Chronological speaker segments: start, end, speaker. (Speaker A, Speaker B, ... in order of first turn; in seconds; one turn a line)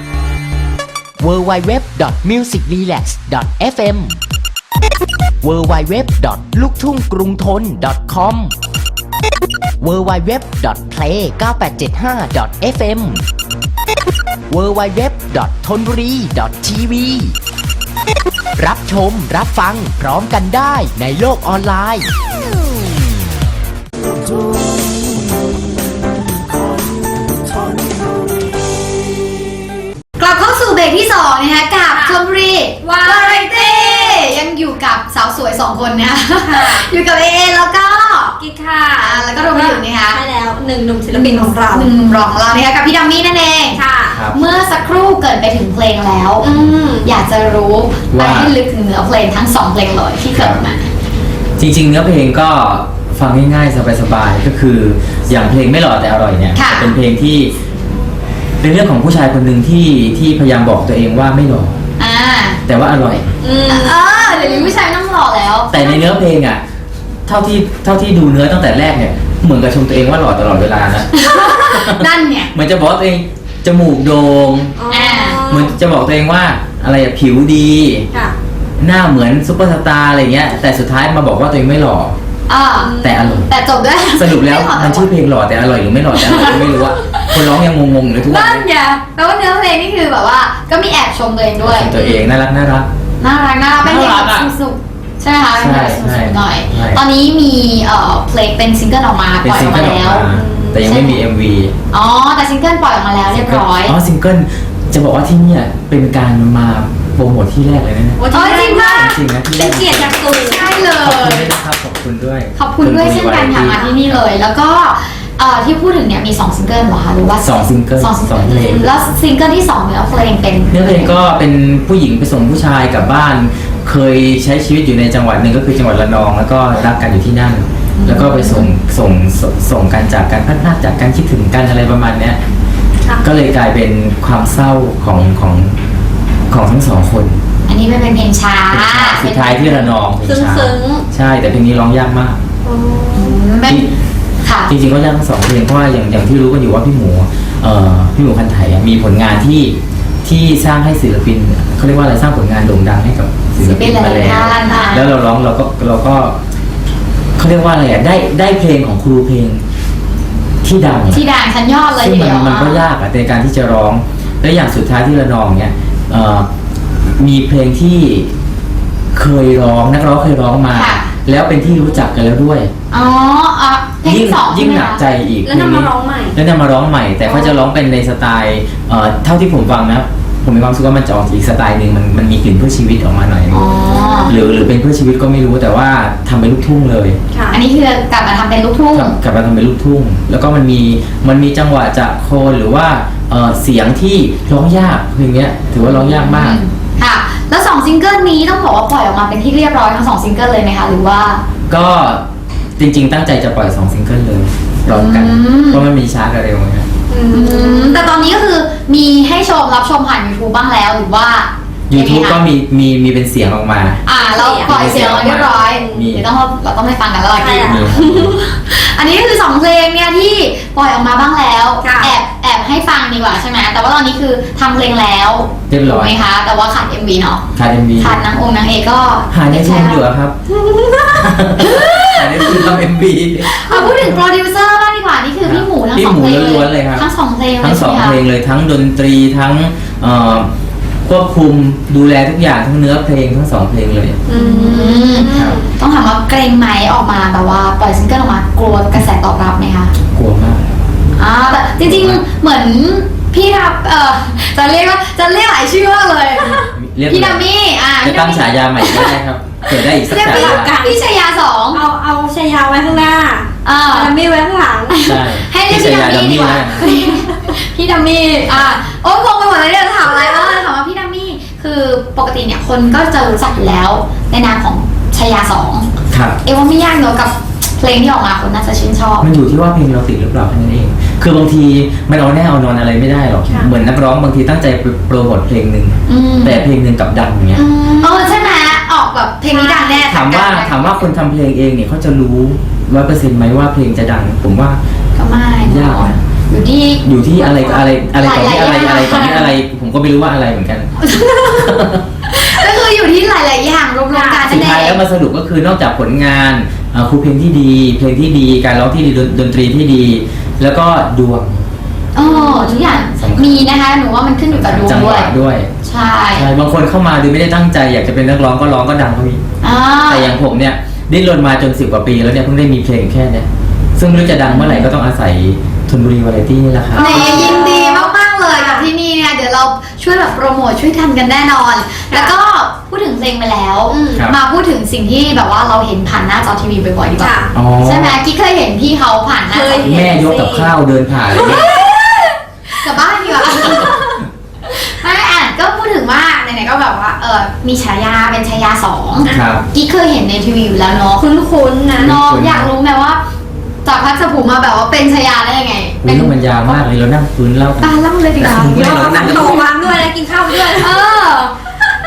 Speaker A: 1.2-4.2
Speaker A: 5.4-8.5
Speaker A: 9.8-13.2
Speaker A: 14.5-17.4
Speaker A: 18.6-22.1
Speaker B: 30.2-38.4
Speaker C: 31.9-32.2
Speaker C: 32.8-34.2
Speaker C: 36.4-36.9
Speaker C: 38.4-41.9
Speaker B: 39.0-40.2
Speaker B: 41.1-43.8
Speaker C: 43.7-44.2
Speaker D: 44.1-44.4
Speaker B: 44.3-46.5
Speaker C: 46.4-47.1
Speaker B: 47.0-50.9
Speaker D: 48.1-48.5
Speaker D: 50.4-50.6
Speaker D: 51.6-57.5
Speaker B: 56.6-57.0
Speaker D: 58.6-61.8
Speaker B: 62.0-62.6
Speaker D: 62.7-63.3
Speaker C: 63.4-64.8
Speaker B: 63.7-66.0
Speaker D: 65.7-66.6
Speaker D: 67.3-71.1
Speaker B: 71.2-72.5
Speaker D: 71.7-74.7
Speaker C: 74.8-75.7
Speaker B: 74.9-75.4
Speaker D: 75.5-78.1
Speaker D: 78.8-82.1
Speaker B: 82.5-85.1
Speaker C: 82.8-83.3
Speaker D: 83.0-83.5
Speaker D: 84.2-88.7
Speaker B: 86.2-87.4
Speaker B: 88.3-92.2
Speaker D: 91.6-92.9
Speaker B: 93.2-100.3
Speaker D: 93.8-94.5
Speaker D: 95.6-97.0
Speaker D: 99.4-101.7
Speaker C: 100.3-100.9
Speaker B: 100.8-101.2
Speaker B: 101.9-104.0
Speaker D: 103.3-108.2
Speaker C: 108.2-110.7
Speaker B: 108.3-109.1
Speaker D: 109.0-110.2
Speaker B: 110.4-111.5
Speaker D: 111.0-114.2
Speaker B: 112.6-121.1
Speaker C: 113.7-114.0
Speaker D: 117.4-118.8
Speaker C: 118.5-118.9
Speaker D: 120.7-132.4
Speaker B: 128.0-128.7
Speaker D: 133.2-135.8
Speaker D: 136.5-137.4
Speaker B: 137.7-139.9
Speaker D: 138.7-142.4
Speaker C: 140.2-141.0
Speaker C: 142.7-143.4
Speaker B: 143.2-143.8
Speaker B: 144.4-144.7
Speaker D: 144.7-156.4
Speaker B: 153.6-155.1
Speaker C: 154.4-155.1
Speaker D: 157.4-159.6
Speaker D: 160.6-161.2
Speaker B: 161.1-162.8
Speaker D: 162.0-166.5
Speaker D: 167.2-168.3
Speaker D: 169.1-172.7
Speaker B: 170.7-171.1
Speaker B: 172.9-175.0
Speaker D: 174.0-183.6
Speaker C: 175.5-176.4
Speaker B: 183.5-184.3
Speaker C: 183.6-184.6
Speaker D: 184.3-187.2
Speaker C: 187.3-187.6
Speaker B: 187.5-189.2
Speaker D: 188.9-196.6
Speaker B: 195.8-201.4
Speaker D: 201.7-202.2
Speaker D: 202.8-206.9
Speaker B: 204.9-205.8
Speaker C: 207.1-208.3
Speaker B: 207.3-212.4
Speaker D: 211.9-214.0
Speaker B: 214.1-217.8
Speaker C: 214.2-216.0
Speaker D: 214.7-216.2
Speaker C: 217.4-218.4
Speaker D: 217.6-218.3
Speaker B: 218.4-227.4
Speaker C: 221.8-222.2
Speaker D: 225.7-226.1
Speaker D: 227.6-228.2
Speaker B: 228.0-230.0
Speaker D: 229.3-230.3
Speaker C: 230.5-231.3
Speaker D: 231.2-233.5
Speaker B: 231.7-232.6
Speaker B: 233.5-238.2
Speaker C: 233.7-234.2
Speaker D: 235.4-237.1
Speaker D: 237.6-240.5
Speaker D: 241.1-244.2
Speaker C: 244.3-245.7
Speaker B: 244.3-249.9
Speaker D: 250.1-250.7
Speaker B: 251.2-259.1
Speaker D: 251.8-252.2
Speaker C: 256.4-256.6
Speaker D: 256.7-257.4
Speaker D: 258.0-260.7
Speaker C: 260.1-261.0
Speaker B: 260.1-261.8
Speaker C: 261.7-265.0
Speaker B: 263.6-264.1
Speaker B: 264.9-275.9
Speaker D: 265.1-266.9
Speaker C: 266.9-267.2
Speaker D: 276.1-276.4
Speaker B: 276.4-279.3
Speaker D: 279.2-287.6
Speaker B: 286.1-286.6
Speaker C: 287.6-288.8
Speaker B: 287.8-290.7
Speaker C: 289.5-290.0
Speaker D: 290.1-294.8
Speaker B: 295.2-299.5
Speaker D: 295.6-296.2
Speaker D: 297.0-300.9
Speaker B: 301.0-301.7
Speaker D: 301.5-302.0
Speaker B: 302.3-305.0
Speaker C: 304.1-304.9
Speaker D: 304.5-311.6
Speaker B: 312.1-315.3
Speaker C: 312.2-313.0
Speaker D: 313.1-313.6
Speaker D: 314.5-315.7
Speaker B: 315.8-316.5
Speaker D: 316.4-319.4
Speaker B: 319.6-320.3
Speaker D: 320.1-327.6
Speaker B: 324.3-324.9
Speaker B: 326.9-340.0
Speaker C: 327.0-328.9
Speaker C: 333.9-334.2
Speaker C: 337.2-337.5
Speaker D: 337.5-338.2
Speaker C: 339.5-340.7
Speaker D: 339.8-341.7
Speaker C: 341.3-344.2
Speaker B: 342.8-344.0
Speaker B: 344.7-351.2
Speaker D: 349.3-349.6
Speaker C: 351.2-352.1
Speaker B: 352.0-353.2
Speaker D: 352.0-352.7
Speaker B: 353.9-356.8
Speaker D: 356.0-359.6
Speaker B: 357.8-359.4
Speaker C: 358.4-361.1
Speaker B: 360.6-361.5